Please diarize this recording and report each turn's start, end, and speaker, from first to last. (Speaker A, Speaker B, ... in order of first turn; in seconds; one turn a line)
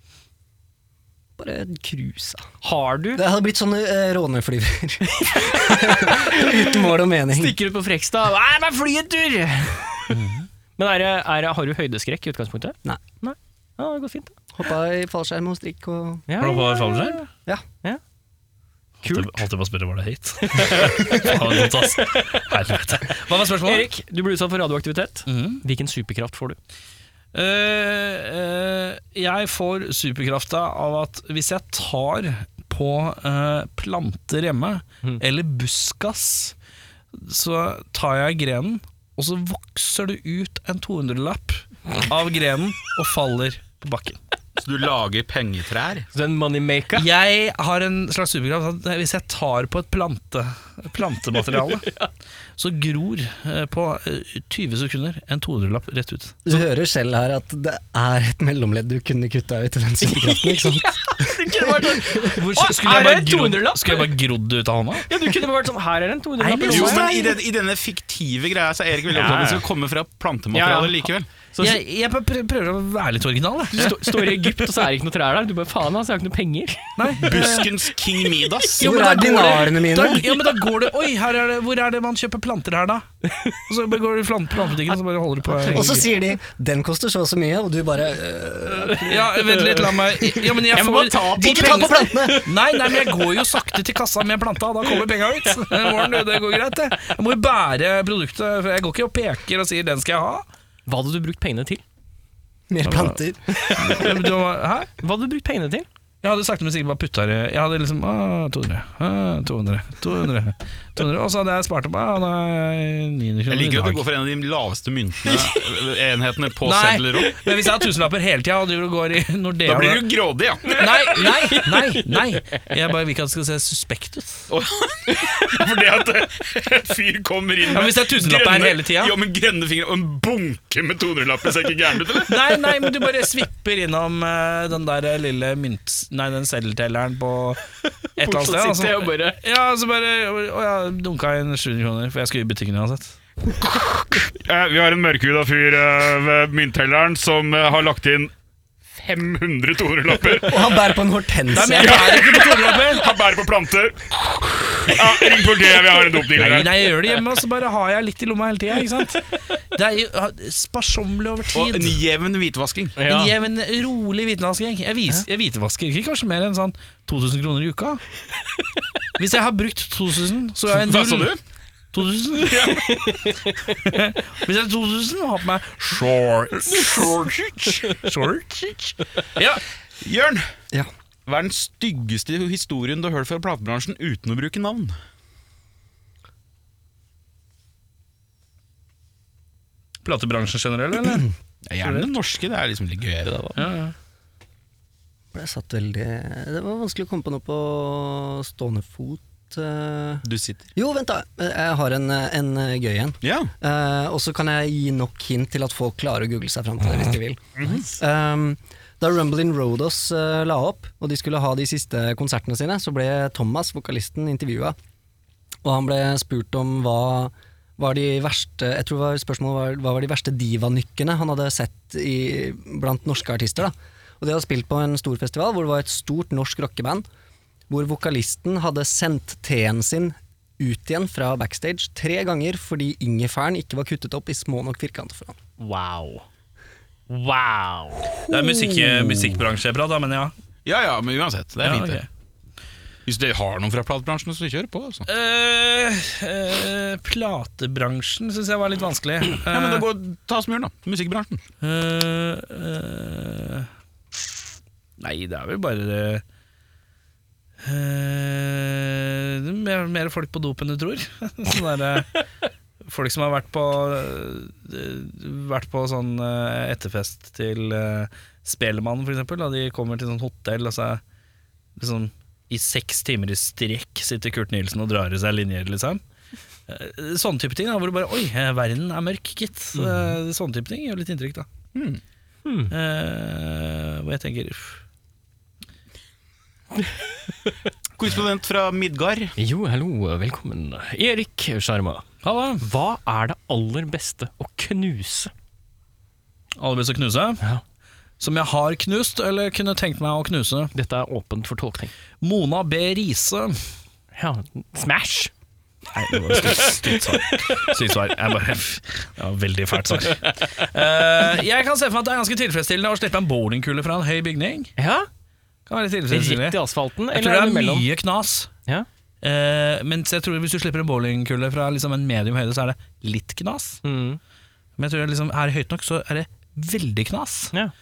Speaker A: 1.4-2.5
Speaker B: 2.6-3.2
Speaker A: 3.1-7.5
Speaker B: 5.6-6.5
Speaker B: 7.3-10.2
Speaker C: 10.1-10.5
Speaker B: 10.8-14.3
Speaker A: 14.5-16.2
Speaker B: 16.3-17.3
Speaker C: 16.4-17.2
Speaker C: 19.0-23.9
Speaker B: 19.0-19.4
Speaker B: 20.4-22.4
Speaker B: 23.6-26.6
Speaker C: 25.2-25.6
Speaker C: 27.3-36.5
Speaker C: 37.1-44.2
Speaker D: 44.6-46.1
Speaker B: 46.1-47.1
Speaker C: 46.9-51.9
Speaker C: 52.6-56.6
Speaker A: 56.5-62.2
Speaker B: 60.2-64.1
Speaker C: 62.1-65.1
Speaker B: 65.0-67.3
Speaker C: 66.4-67.2
Speaker D: 66.7-71.3
Speaker B: 69.1-69.6
Speaker B: 70.5-71.8
Speaker C: 71.6-74.8
Speaker B: 73.7-77.2
Speaker C: 77.0-77.7
Speaker D: 77.2-78.9
Speaker A: 78.8-80.3
Speaker C: 78.8-83.1
Speaker C: 83.7-86.1
Speaker B: 85.5-86.1
Speaker A: 85.7-89.3
Speaker C: 88.8-100.5
Speaker B: 89.5-89.9
Speaker B: 90.5-92.5
Speaker A: 91.3-92.5
Speaker B: 100.9-101.8
Speaker A: 102.7-103.5
Speaker C: 102.8-104.9
Speaker B: 103.5-104.1
Speaker B: 105.0-105.9
Speaker C: 106.2-114.0
Speaker D: 113.5-117.4
Speaker C: 116.6-120.0
Speaker D: 119.6-120.8
Speaker C: 120.7-124.5
Speaker B: 120.7-122.2
Speaker D: 124.5-132.4
Speaker C: 127.7-129.2
Speaker C: 132.2-137.6
Speaker C: 138.2-143.2
Speaker B: 138.2-139.4
Speaker D: 144.2-148.3
Speaker D: 148.9-150.8
Speaker A: 150.4-152.2
Speaker C: 151.5-153.1
Speaker D: 151.9-156.9
Speaker C: 156.3-162.0
Speaker D: 161.5-163.0
Speaker B: 163.0-163.3
Speaker C: 163.0-168.0
Speaker C: 169.2-171.3
Speaker D: 170.7-171.4
Speaker C: 171.9-179.6
Speaker B: 172.6-173.5
Speaker D: 176.6-177.8
Speaker D: 180.0-180.4
Speaker D: 181.3-184.9
Speaker C: 190.0-191.3
Speaker D: 191.7-193.6
Speaker C: 191.8-192.1
Speaker C: 193.5-193.9
Speaker A: 195.3-200.2
Speaker D: 200.2-200.7
Speaker A: 200.8-214.7
Speaker D: 203.2-203.5
Speaker D: 207.6-207.9
Speaker A: 215.6-227.0
Speaker A: 227.7-235.3
Speaker B: 235.6-236.2
Speaker B: 237.1-238.2
Speaker C: 238.3-240.3
Speaker D: 240.6-242.0
Speaker C: 241.6-242.1
Speaker D: 243.1-245.1
Speaker C: 245.1-249.9
Speaker D: 249.5-251.4
Speaker C: 251.6-254.4
Speaker C: 255.0-256.2
Speaker C: 257.6-262.1
Speaker C: 262.8-271.0
Speaker C: 271.8-276.0
Speaker C: 276.7-281.5
Speaker B: 279.8-280.1
Speaker D: 281.7-282.0
Speaker B: 282.4-282.7
Speaker C: 282.7-284.8
Speaker D: 288.0-289.3
Speaker B: 289.4-292.0
Speaker C: 292.2-292.6
Speaker B: 292.6-295.3
Speaker C: 296.6-297.4
Speaker C: 298.2-300.7
Speaker B: 300.7-301.9
Speaker C: 302.2-303.7
Speaker B: 304.1-305.3
Speaker C: 305.9-314.7
Speaker B: 306.4-307.6
Speaker B: 314.8-315.1
Speaker C: 315.7-316.6
Speaker B: 316.1-317.9
Speaker C: 317.1-318.5
Speaker C: 319.2-323.8
Speaker B: 323.8-324.2
Speaker C: 324.8-327.5